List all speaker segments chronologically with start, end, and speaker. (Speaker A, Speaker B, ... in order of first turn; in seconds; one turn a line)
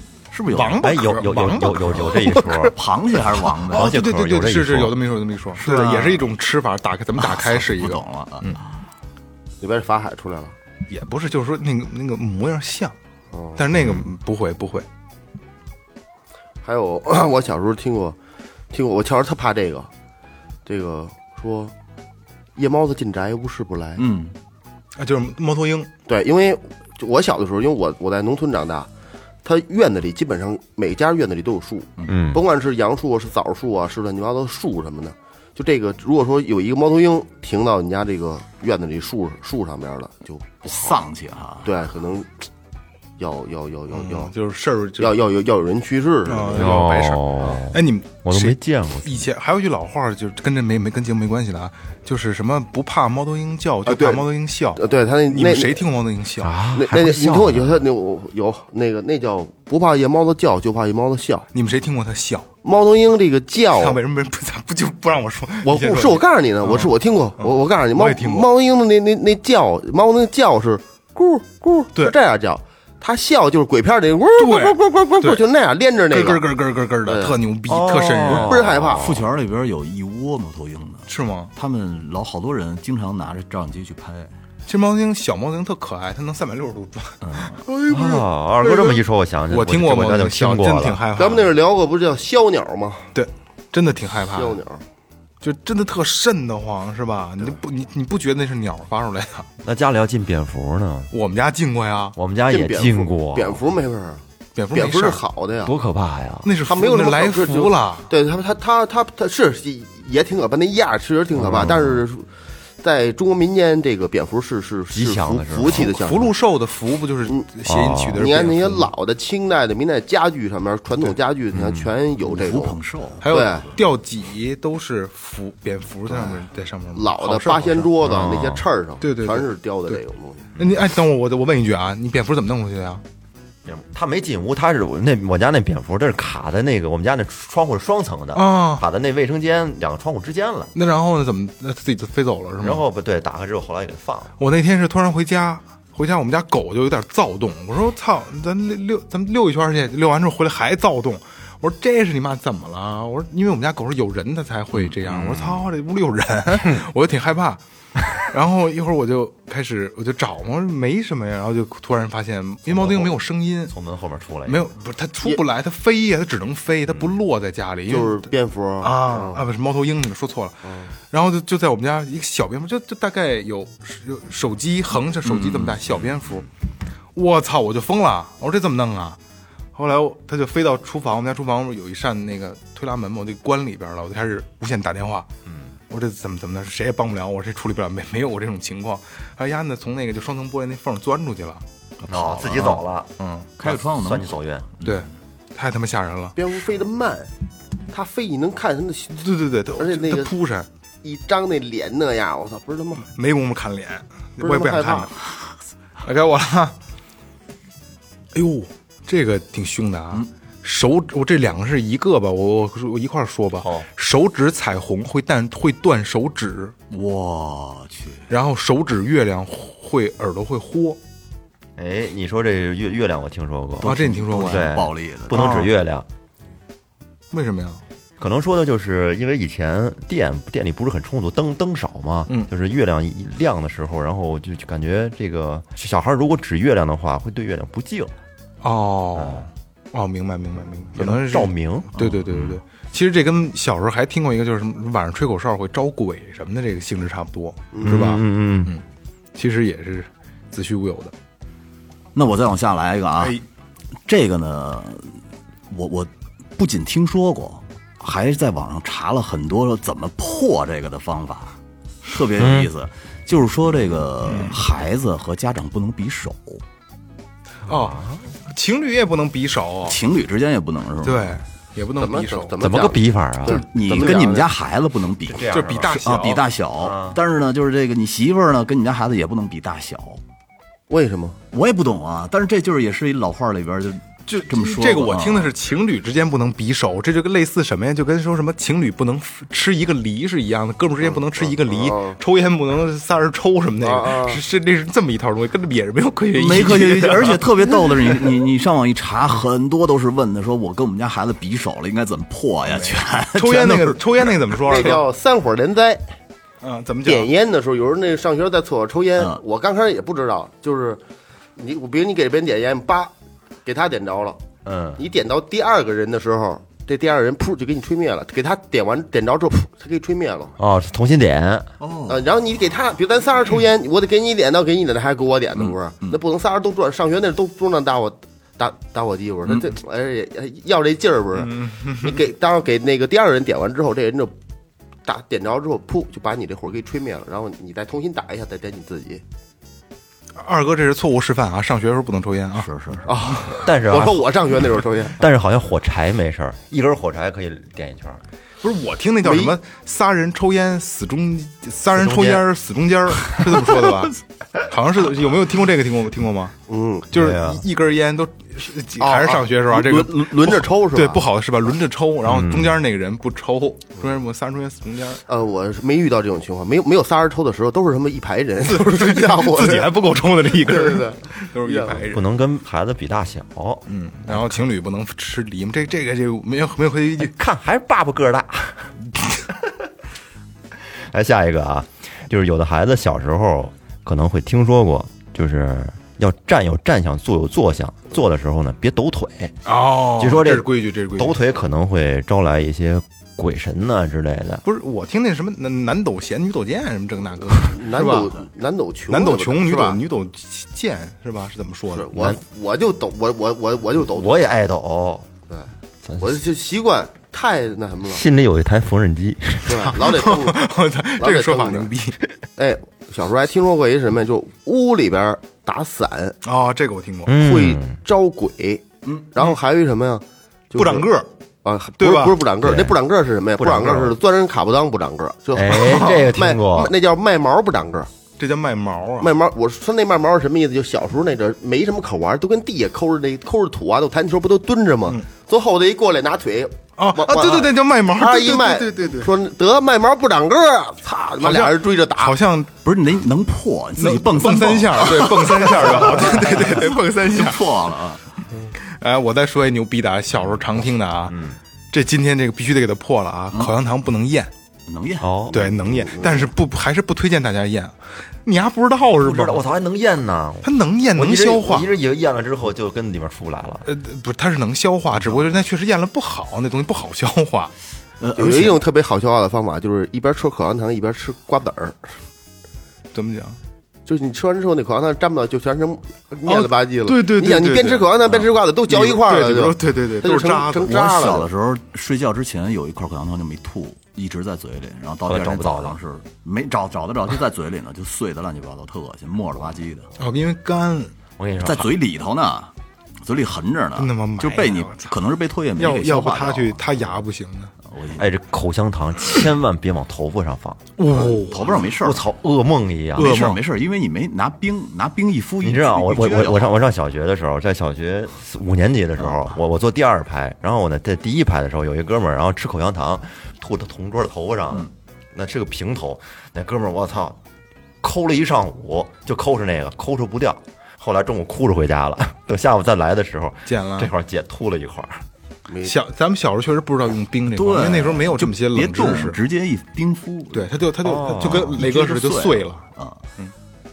Speaker A: 0.3-1.0
Speaker B: 0.5-2.7
Speaker C: 0.8-2.8
Speaker A: 2.1-4.0
Speaker B: 3.7-8.6
Speaker C: 3.7-5.0
Speaker A: 5.5-6.3
Speaker A: 7.2-8.6
Speaker D: 9.6-10.5
Speaker B: 10.9-12.9
Speaker D: 13.3-13.6
Speaker B: 13.6-14.9
Speaker D: 16.6-18.2
Speaker D: 18.7-19.9
Speaker D: 20.7-21.7
Speaker D: 22.6-24.1
Speaker A: 24.0-24.3
Speaker B: 25.0-25.9
Speaker D: 26.1-28.9
Speaker D: 29.4-41.0
Speaker C: 32.1-32.4
Speaker A: 40.6-41.7
Speaker D: 41.6-42.3
Speaker D: 43.2-44.3
Speaker B: 43.9-45.2
Speaker D: 45.0-46.7
Speaker B: 46.3-56.5
Speaker C: 46.5-49.3
Speaker D: 53.9-55.8
Speaker C: 56.4-57.8
Speaker D: 56.7-61.5
Speaker B: 61.5-62.5
Speaker D: 62.6-64.0
Speaker B: 63.7-68.5
Speaker D: 65.6-76.5
Speaker B: 74.4-75.4
Speaker B: 76.1-78.6
Speaker D: 77.1-77.4
Speaker C: 77.7-79.3
Speaker D: 78.2-79.1
Speaker A: 78.9-84.3
Speaker B: 81.1-81.5
Speaker B: 84.7-88.1
Speaker C: 87.9-91.0
Speaker B: 88.6-91.5
Speaker D: 91.2-93.1
Speaker B: 93.1-94.6
Speaker D: 94.3-94.8
Speaker B: 95.4-99.5
Speaker C: 99.6-101.1
Speaker B: 101.1-102.2
Speaker C: 102.2-103.6
Speaker D: 102.5-104.2
Speaker B: 104.5-105.2
Speaker D: 104.7-105.7
Speaker C: 105.7-106.5
Speaker B: 106.4-108.1
Speaker D: 106.7-112.3
Speaker C: 111.4-112.0
Speaker D: 112.8-116.3
Speaker C: 114.9-115.9
Speaker B: 115.7-118.9
Speaker C: 117.7-118.2
Speaker D: 118.2-123.7
Speaker C: 121.5-121.9
Speaker A: 122.2-123.7
Speaker B: 123.2-128.1
Speaker D: 126.1-126.4
Speaker D: 127.0-130.5
Speaker C: 128.0-128.6
Speaker B: 129.0-130.0
Speaker B: 130.6-133.0
Speaker C: 133.7-140.7
Speaker B: 138.3-138.8
Speaker B: 140.8-142.8
Speaker C: 142.6-144.3
Speaker B: 144.4-157.6
Speaker C: 155.1-155.6
Speaker B: 158.1-163.7
Speaker C: 162.7-163.2
Speaker C: 163.7-164.7
Speaker B: 164.5-168.3
Speaker D: 167.9-169.4
Speaker B: 168.8-176.5
Speaker D: 170.6-170.9
Speaker A: 175.2-176.0
Speaker B: 177.1-179.2
Speaker B: 179.8-185.3
Speaker B: 185.9-191.6
Speaker A: 192.0-192.8
Speaker C: 192.1-193.1
Speaker B: 193.2-193.5
Speaker A: 193.6-195.1
Speaker C: 193.7-194.7
Speaker B: 194.8-196.4
Speaker D: 196.4-197.3
Speaker D: 197.9-199.2
Speaker B: 199.2-200.7
Speaker D: 199.8-200.3
Speaker D: 201.0-203.1
Speaker B: 203.1-205.1
Speaker D: 204.4-205.1
Speaker B: 206.0-206.8
Speaker B: 208.3-216.7
Speaker C: 213.6-213.9
Speaker A: 216.9-218.3
Speaker B: 218.3-221.0
Speaker C: 221.8-226.1
Speaker B: 223.8-224.7
Speaker A: 223.8-225.6
Speaker B: 225.3-225.7
Speaker B: 227.3-227.8
Speaker C: 228.2-238.1
Speaker B: 238.6-248.8
Speaker C: 239.2-239.5
Speaker C: 241.0-241.9
Speaker A: 242.0-242.5
Speaker D: 247.7-248.0
Speaker C: 247.8-248.8
Speaker B: 249.3-251.1
Speaker A: 252.2-253.4
Speaker A: 254.1-255.2
Speaker A: 255.7-266.6
Speaker C: 262.4-262.7
Speaker B: 264.3-264.6
Speaker B: 267.7-270.0
Speaker C: 267.9-268.2
Speaker A: 269.9-271.4
Speaker B: 271.0-272.6
Speaker D: 272.0-274.5
Speaker C: 272.6-273.6
Speaker A: 273.5-280.2
Speaker C: 275.3-276.0
Speaker B: 275.5-276.5
Speaker C: 276.8-277.2
Speaker D: 280.9-281.4
Speaker A: 281.5-285.5
Speaker B: 284.3-298.2
Speaker D: 291.0-292.2
Speaker D: 293.8-294.4
Speaker A: 296.3-304.4
Speaker B: 302.7-305.0
Speaker D: 304.6-306.0
Speaker B: 306.6-307.3
Speaker D: 307.1-311.0
Speaker D: 311.6-313.1
Speaker D: 313.6-314.4
Speaker C: 314.6-315.0
Speaker D: 315.0-320.6
Speaker C: 320.6-321.7
Speaker A: 321.8-322.3
Speaker D: 322.1-334.3
Speaker A: 325.6-326.2
Speaker B: 331.4-332.2
Speaker D: 335.1-339.2
Speaker B: 340.4-342.7
Speaker A: 342.6-343.1
Speaker D: 343.1-345.2
Speaker C: 343.5-344.4
Speaker C: 345.2-348.2
Speaker B: 348.6-356.6
Speaker D: 349.2-349.6
Speaker C: 351.9-352.4
Speaker D: 356.7-357.1
Speaker B: 357.1-365.2
Speaker C: 357.1-357.6
Speaker D: 359.0-361.2
Speaker C: 362.2-362.8
Speaker D: 365.3-369.9
Speaker B: 368.6-372.2
Speaker D: 370.6-372.0
Speaker C: 372.1-374.5
Speaker B: 373.9-377.3
Speaker C: 377.2-378.9
Speaker C: 380.9-389.6
Speaker B: 389.6-391.4
Speaker C: 390.2-394.6
Speaker B: 394.6-398.4
Speaker D: 397.5-400.0
Speaker B: 399.1-402.2
Speaker D: 401.9-404.4
Speaker C: 404.0-405.3
Speaker C: 406.0-406.3
Speaker D: 406.2-408.2
Speaker C: 408.1-409.9
Speaker D: 409.6-410.6
Speaker B: 409.9-412.2
Speaker D: 411.2-411.9
Speaker D: 412.6-416.4
Speaker B: 416.4-417.4
Speaker C: 417.3-418.0
Speaker D: 417.4-421.1
Speaker B: 420.8-421.3
Speaker D: 421.6-428.1
Speaker B: 422.0-422.4
Speaker C: 422.6-423.0
Speaker C: 423.6-424.2
Speaker C: 425.5-426.9
Speaker B: 425.9-426.2
Speaker B: 428.4-429.3
Speaker D: 429.2-442.4
Speaker B: 437.0-439.3
Speaker B: 441.4-442.7
Speaker A: 442.8-448.2
Speaker B: 444.0-447.7
Speaker B: 448.7-451.4
Speaker C: 451.3-451.6
Speaker B: 451.9-454.5
Speaker A: 454.9-455.3
Speaker C: 455.2-455.9
Speaker B: 455.5-459.6
Speaker D: 456.1-456.5
Speaker C: 459.2-463.9
Speaker B: 460.6-461.9
Speaker B: 463.9-467.7
Speaker A: 468.2-468.8
Speaker D: 468.4-472.1
Speaker B: 473.1-473.6
Speaker D: 474.1-481.5
Speaker B: 476.5-478.1
Speaker B: 478.9-481.0
Speaker A: 480.8-490.1
Speaker C: 485.3-486.0
Speaker B: 490.2-491.1
Speaker C: 491.4-491.9
Speaker A: 491.6-492.7
Speaker A: 493.2-497.2
Speaker B: 494.0-495.1
Speaker B: 495.8-497.7
Speaker A: 497.9-498.3
Speaker C: 498.2-500.8
Speaker B: 501.0-501.9
Speaker A: 501.1-502.2
Speaker C: 502.0-503.6
Speaker A: 503.2-506.8
Speaker B: 503.2-503.6
Speaker C: 505.6-517.4
Speaker C: 518.0-525.2
Speaker B: 523.7-524.1
Speaker D: 525.7-526.0
Speaker B: 525.9-529.4
Speaker A: 527.5-533.2
Speaker B: 530.5-532.9
Speaker C: 531.0-531.9